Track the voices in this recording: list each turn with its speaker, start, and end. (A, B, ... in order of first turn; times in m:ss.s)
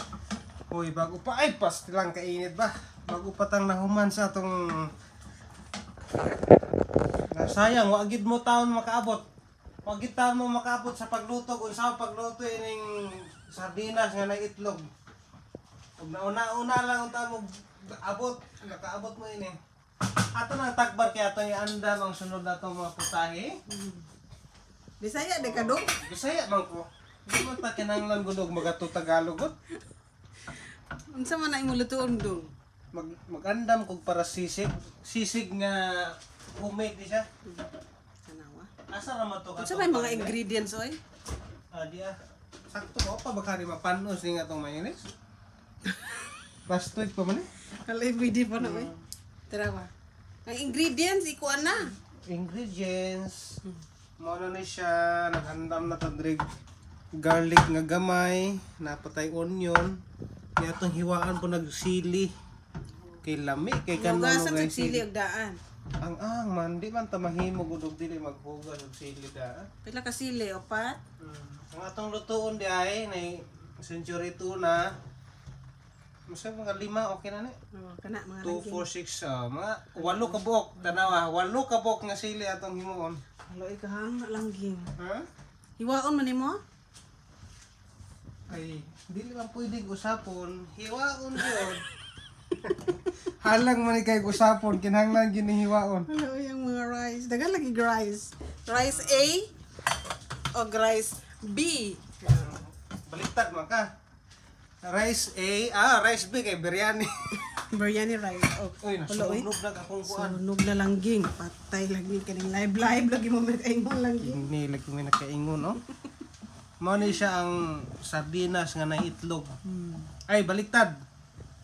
0:00.7-0:04.9 A
0:07.3-0:09.2 A
0:09.8-0:14.9 A
0:16.0-0:19.6 A
0:20.3-0:23.5 A
0:23.7-0:24.0 B
0:25.0-0:26.0 B
0:25.4-0:29.5 A
0:30.5-0:32.5 B
0:32.9-0:37.2 A
0:38.3-0:38.7 B
0:38.9-0:40.3 A
0:39.6-0:41.0 B
0:41.7-0:42.1 A
0:42.7-0:45.1 A
0:45.9-0:46.3 B
0:46.7-0:47.4 A
0:47.8-0:48.9 B
0:48.6-0:49.0 A
0:49.5-0:49.9 B
0:50.4-0:51.9 B
0:52.3-0:53.5 A
0:54.2-0:56.5 A
0:57.2-1:00.0 A
1:00.6-1:02.3 A
1:03.2-1:05.0 A
1:03.9-1:05.6 B
1:06.0-1:09.7 A
1:09.8-1:11.0 B
1:11.2-1:14.9 A
1:16.3-1:17.5 A
1:17.7-1:18.8 B
1:18.4-1:23.2 A
1:20.0-1:21.1 B
1:23.5-1:24.9 B
1:25.0-1:25.2 A
1:25.8-1:26.6 B
1:28.5-1:31.8 A
1:31.4-1:31.7 B
1:33.3-1:36.1 A
1:36.1-1:39.5 B
1:38.8-1:39.3 A
1:40.5-1:42.6 B
1:42.3-1:43.9 A
1:44.8-1:47.4 A
1:47.5-1:49.5 B
1:48.8-1:50.4 A
1:50.1-1:54.4 B
1:54.2-1:55.8 A
1:56.8-1:59.5 A
1:59.6-2:00.1 B
2:00.3-2:00.9 A